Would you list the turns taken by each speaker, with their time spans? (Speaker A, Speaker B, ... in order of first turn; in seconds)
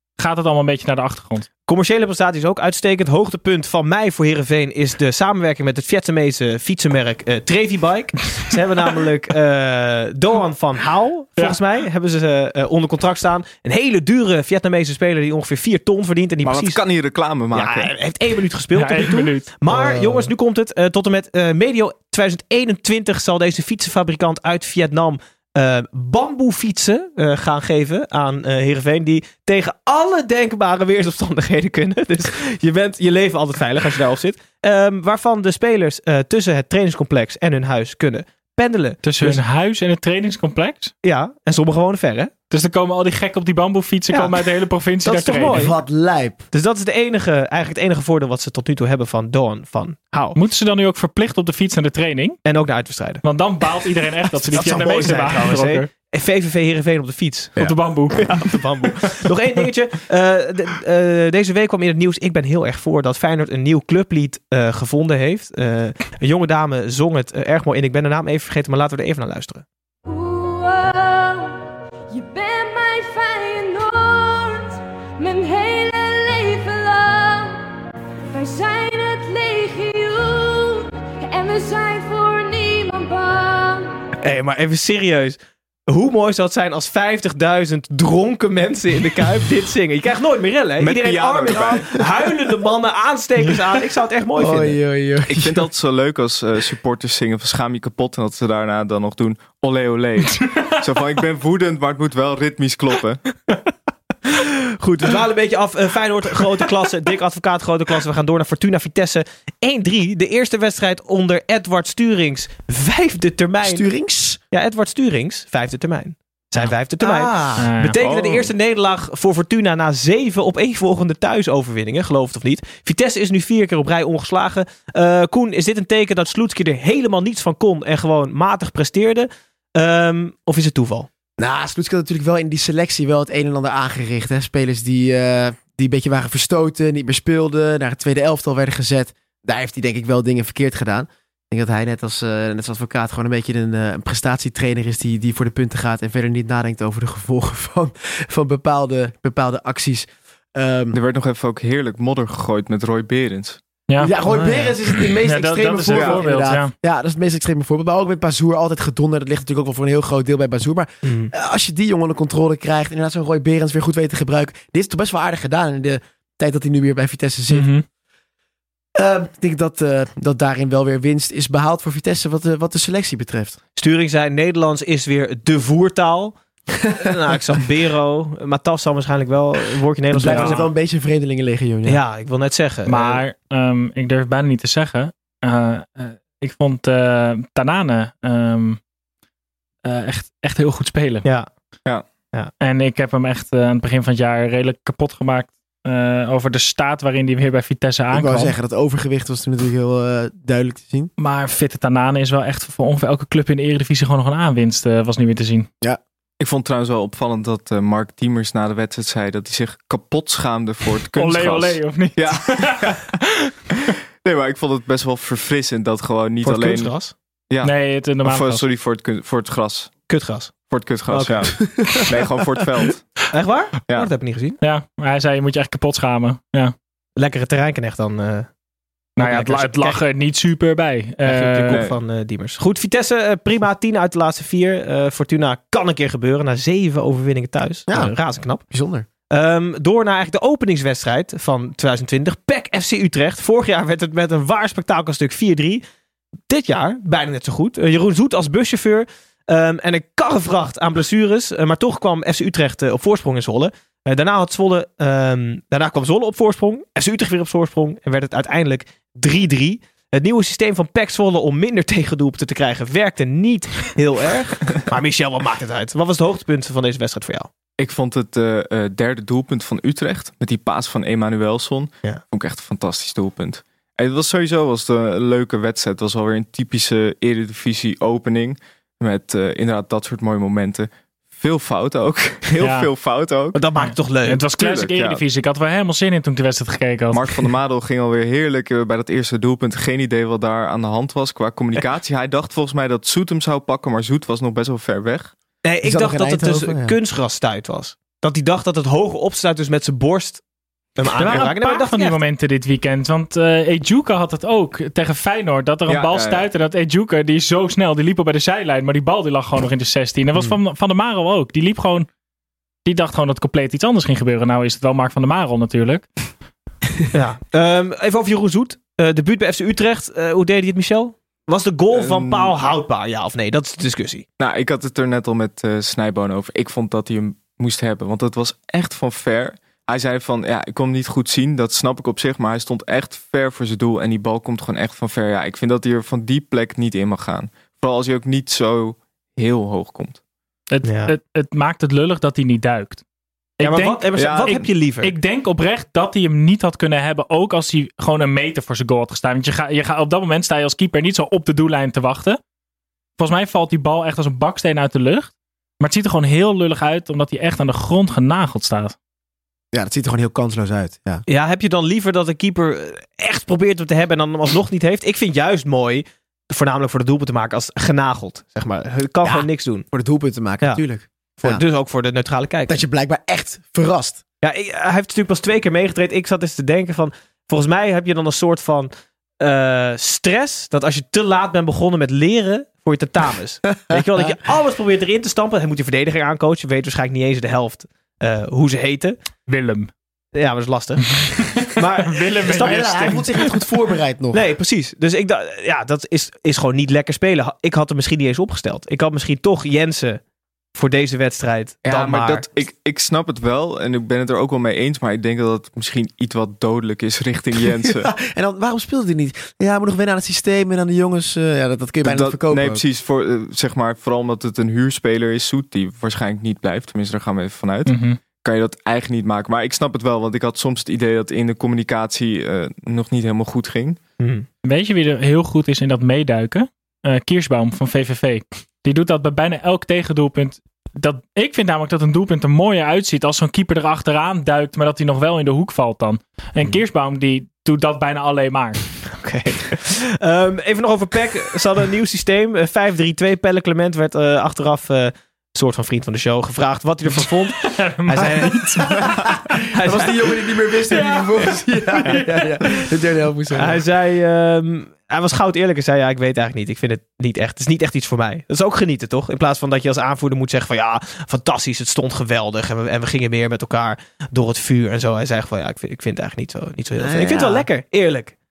Speaker A: 0.2-1.5, 18.8-19.5, 39.0-40.9, 42.5-45.7, 50.4-52.4, 53.2-55.9, 57.6-58.4, 117.6-118.0, 153.9-154.1, 155.2-156.7, 167.5-167.8, 180.3-180.6, 182.9-188.8, 189.9-191.3, 192.6-198.5, 201.2-205.7, 211.2-213.1, 217.6-218.6, 224.6-226.7, 229.2-231.8, 282.6-282.9, 283.8-287.4, 301.2-312.1, 312.9-316.1, 340.7-343.0, 343.6-344.1, 345.0-352.4, 353.2-359.0, 389.5-389.9, 391.2-393.5, 417.9-418.2, 424.6-438.8, 447.7-449.0, 450.9-452.8
Speaker B: 1.7-16.8, 17.5-39.4, 41.0-42.3, 45.0-45.8, 46.5-50.4, 52.5-53.2, 54.4-57.6, 58.2-69.6, 84.2-85.4, 85.9-94.8, 104.4-113.8, 114.5-131.1, 154.2-154.7, 161.0-161.3, 173.8-176.4, 177.0-180.7, 181.9-183.2, 216.4-217.1, 220.1-221.6, 223.3-224.6, 227.2-228.5, 229.2-230.0, 231.2-238.6, 239.3-245.8, 246.5-267.5, 283.5-284.5, 295.6-300.4, 301.0-302.2, 317.1-324.2, 340.8-341.1, 343.6-345.1, 361.3-369.9, 371.4-372.8, 374.4-378.9, 379.4-389.2, 390.4-391.1, 391.6-393.1, 394.3-400.2, 400.8-402.5, 424.2-424.5, 439.2-448.9, 449.7-450.1, 453.6-468.3
Speaker C: 16.4-17.9, 90.8-92.0, 95.3-103.2, 118.0-118.5, 150.9-153.6, 155.9-156.2, 206.4-213.1, 214.2-220.1, 220.7-223.2, 267.8-283.6, 284.6-285.2, 287.1-295.3, 305.9-306.5, 321.9-322.6, 324.4-340.2, 344.2-344.6, 401.9-408.1, 412.0-424.0
Speaker D: 19.7-20.3, 45.3-46.4, 94.4-95.7, 113.6-114.4, 117.0-117.7, 131.4-151.0, 154.0-167.8, 169.0-173.6, 180.1-182.0, 198.1-201.1, 221.7-222.1, 237.9-239.1, 295.8-296.9, 359.7-361.2, 369.2-371.6, 372.7-374.2, 383.9-384.4, 392.4-394.4, 407.8-412.8, 448.8-453.8, 467.0-467.7
Speaker E: 70.1-71.6, 72.1-77.7, 78.3-84.0